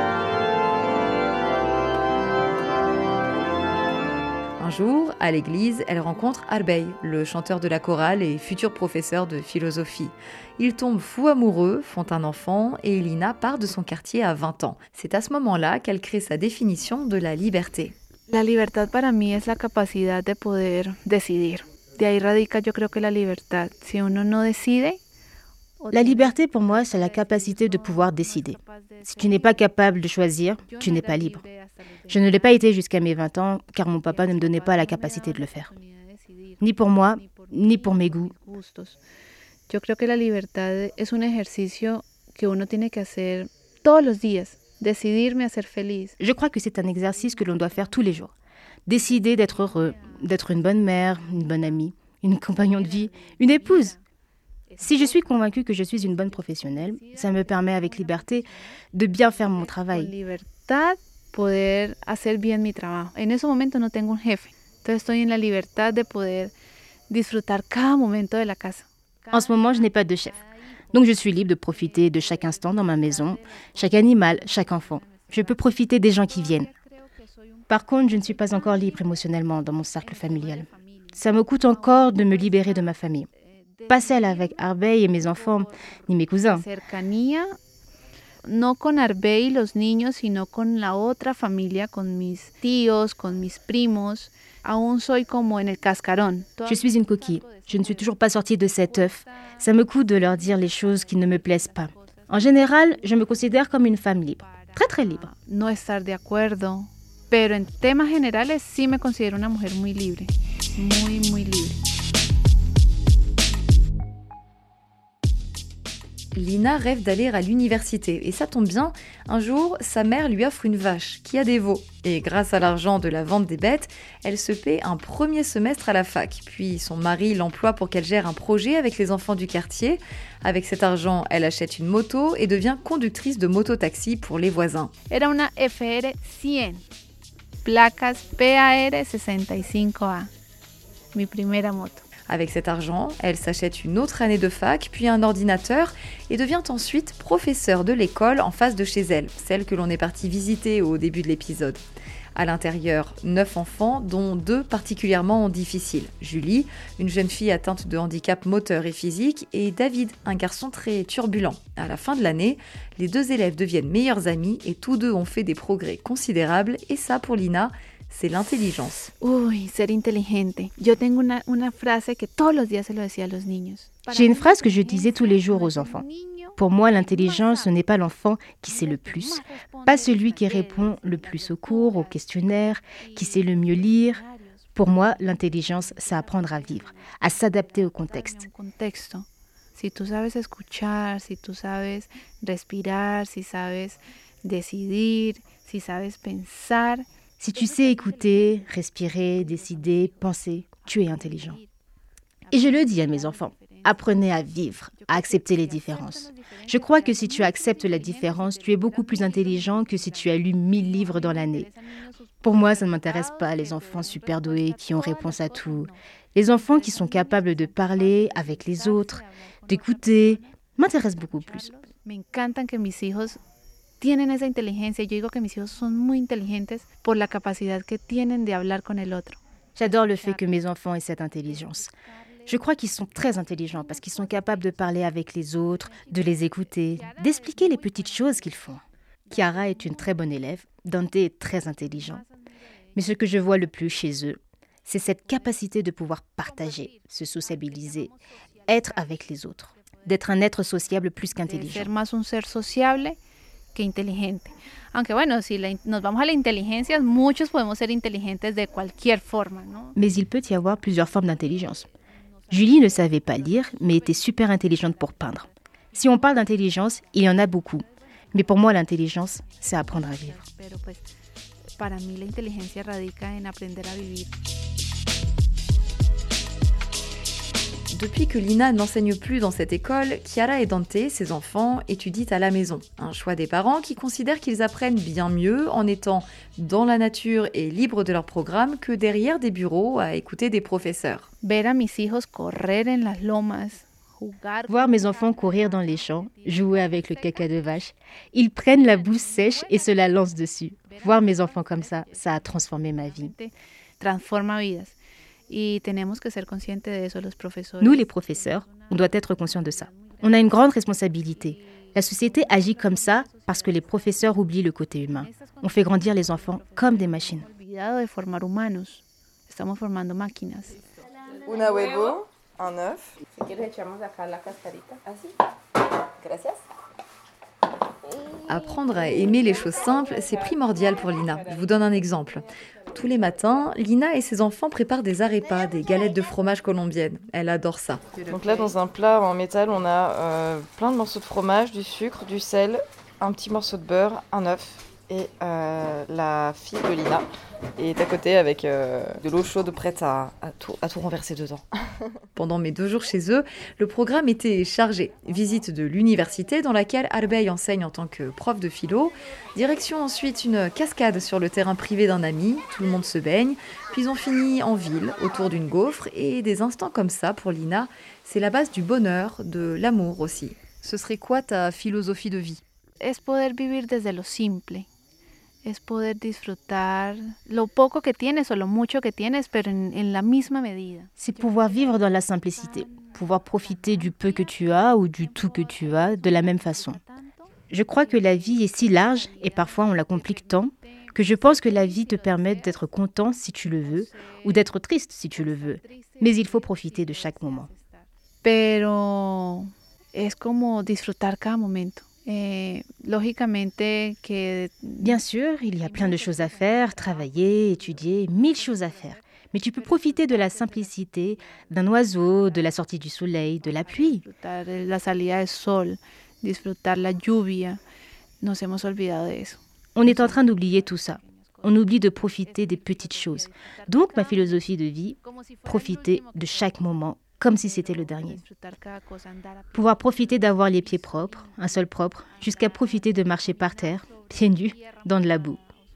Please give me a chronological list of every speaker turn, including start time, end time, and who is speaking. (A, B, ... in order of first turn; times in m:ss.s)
0:04.6-0:17.9 A
0:18.3-0:25.0 B
0:25.8-0:26.3 B
0:25.9-0:31.4 C
0:27.1-0:29.5 B
0:30.8-0:32.1 B
0:32.1-0:35.7 C
0:34.4-0:36.5 B
0:36.6-0:38.3 C
0:38.2-0:39.0 B
0:39.7-0:46.2 B
0:46.2-0:48.3 C
0:48.9-0:54.0 C
0:54.8-1:00.1 C
0:59.9-1:06.5 B
1:07.1-1:08.8 B
1:09.3-1:16.7 C
1:17.7-1:23.3 C
1:23.9-1:26.6 C
1:26.5-1:27.6 B
1:28.4-1:36.7 B
1:36.6-1:45.3 C
1:45.3-1:51.8 B
1:56.3-2:14.9 A
2:15.1-2:16.8 B
2:17.6-2:20.3 B
2:21.1-2:22.0 B
2:22.3-2:31.8 A
2:32.4-2:49.1 A
2:49.2-2:56.6 B
2:54.1-2:56.0 C
2:56.6-3:04.2 C
2:59.4-3:01.5 B
3:04.7-3:08.5 C
3:08.2-3:17.0 B
3:17.4-3:21.6 C
3:22.5-3:31.7 C
3:23.6-3:23.8 B
3:25.4-3:26.1 B
3:26.9-3:30.0 B
3:31.0-3:31.8 B
3:32.4-3:41.7 C
3:33.9-3:35.9 B
3:37.1-3:39.7 B
3:41.7-3:43.4 B
3:44.0-3:49.4 B
3:49.8-3:51.9 C
3:52.4-4:02.2 C
4:02.9-4:08.1 C
4:08.7-4:11.9 C
4:11.5-4:13.2 B
4:13.7-4:19.9 B
4:20.0-4:21.9 C
4:22.5-4:30.4 C
4:30.4-4:31.0 B
4:31.8-4:34.3 B
4:37.9-4:51.3 A
4:51.4-4:55.5 B
4:54.7-5:03.3 C
5:03.2-5:05.0 B
5:05.5-5:08.0 B
5:07.8-5:17.5 C
5:17.5-5:20.8 B
5:21.4-5:23.1 D
5:28.4-5:38.2 A
5:38.3-5:47.2 D
5:47.8-5:51.6 D
5:52.4-6:12.6 A
6:13.0-6:14.9 B
6:15.6-6:21.1 B
6:21.2-6:27.0 C
6:27.7-6:37.7 C
6:38.4-6:45.1 B
6:45.0-6:54.2 C
6:54.2-6:57.8 B
6:58.4-7:00.4 B
7:00.0-7:08.4 C
7:05.5-7:06.3 B
7:08.0-7:09.8 B
7:09.7-7:15.6 C